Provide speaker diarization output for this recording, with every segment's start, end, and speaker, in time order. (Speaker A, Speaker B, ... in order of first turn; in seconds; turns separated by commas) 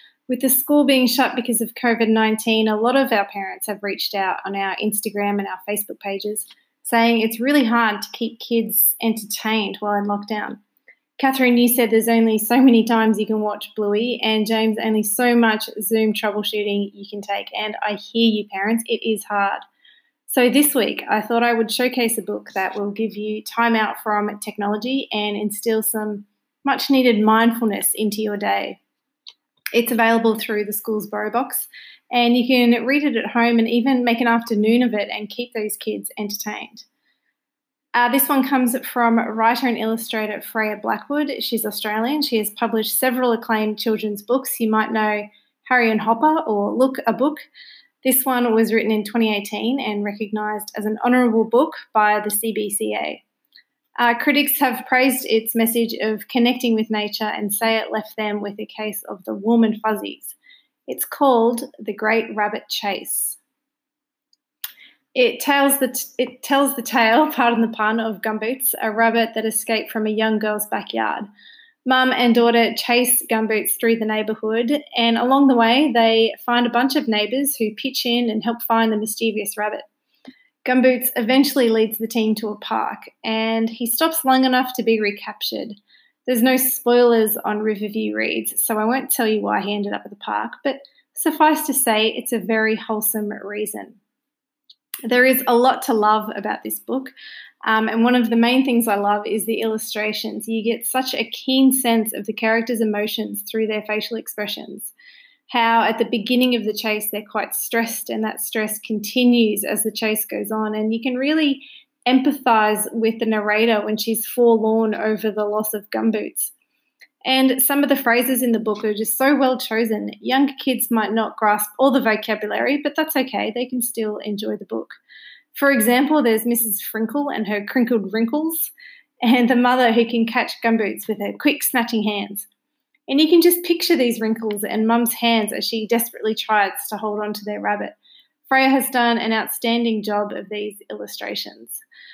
Speaker A: 0.3-10.6, Speaker A: 11.2-19.6, Speaker A: 20.3-28.8, Speaker A: 29.7-36.9, Speaker A: 38.0-47.4, Speaker A: 48.0-53.2, Speaker A: 54.0-60.4, Speaker A: 60.9-63.4, Speaker A: 65.2-71.3, Speaker A: 71.9-79.8, Speaker A: 80.7-94.0, Speaker A: 95.1-97.1, Speaker A: 97.7-104.9, Speaker A: 105.5-116.5, Speaker A: 117.2-125.0, Speaker A: 125.5-128.7, Speaker A: 129.2-132.5, Speaker A: 133.1-138.0, Speaker A: 138.5-141.8